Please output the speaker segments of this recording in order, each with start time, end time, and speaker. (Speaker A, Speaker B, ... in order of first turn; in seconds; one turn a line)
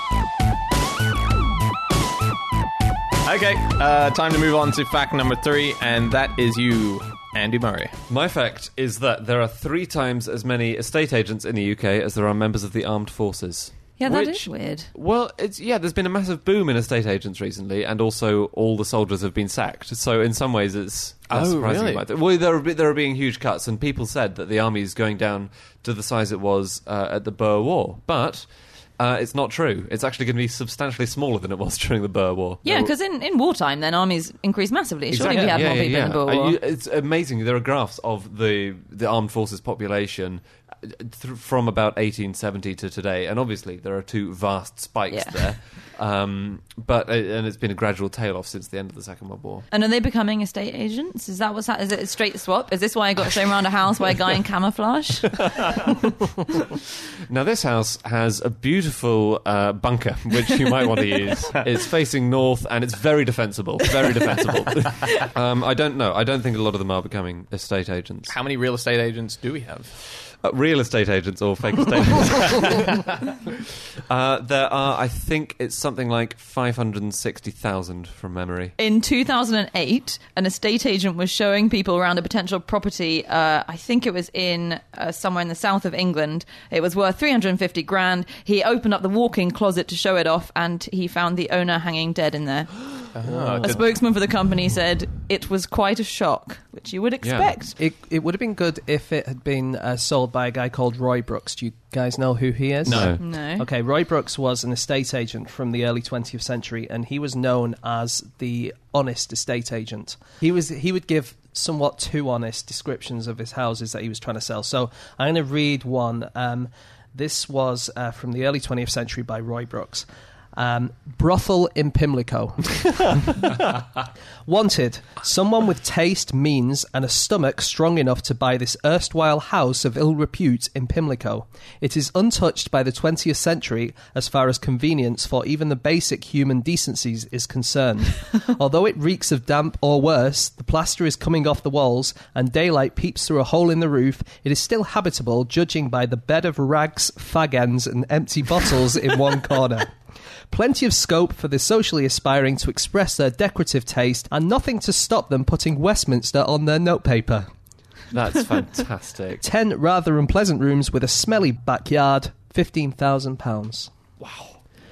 Speaker A: 3.2-7.9
Speaker B: 8.1-32.9
Speaker C: 14.0-14.9
Speaker A: 21.3-22.0
Speaker C: 32.6-36.6
Speaker B: 35.1-49.6
Speaker D: 35.3-35.7
Speaker C: 45.1-45.4
Speaker C: 49.7-55.6
Speaker B: 57.3-68.3
Speaker A: 68.3-69.9
Speaker B: 70.0-73.1
Speaker B: 74.1-78.8
Speaker C: 78.8-93.0
Speaker A: 93.1-93.8
Speaker D: 93.2-93.8
Speaker C: 93.6-97.8
Speaker B: 97.2-97.5
Speaker D: 97.8-123.5
Speaker B: 102.8-103.2
Speaker A: 102.8-103.1
Speaker C: 103.2-103.7
Speaker D: 124.4-149.9
Speaker D: 150.5-157.5
Speaker B: 158.1-159.4
Speaker D: 159.4-163.9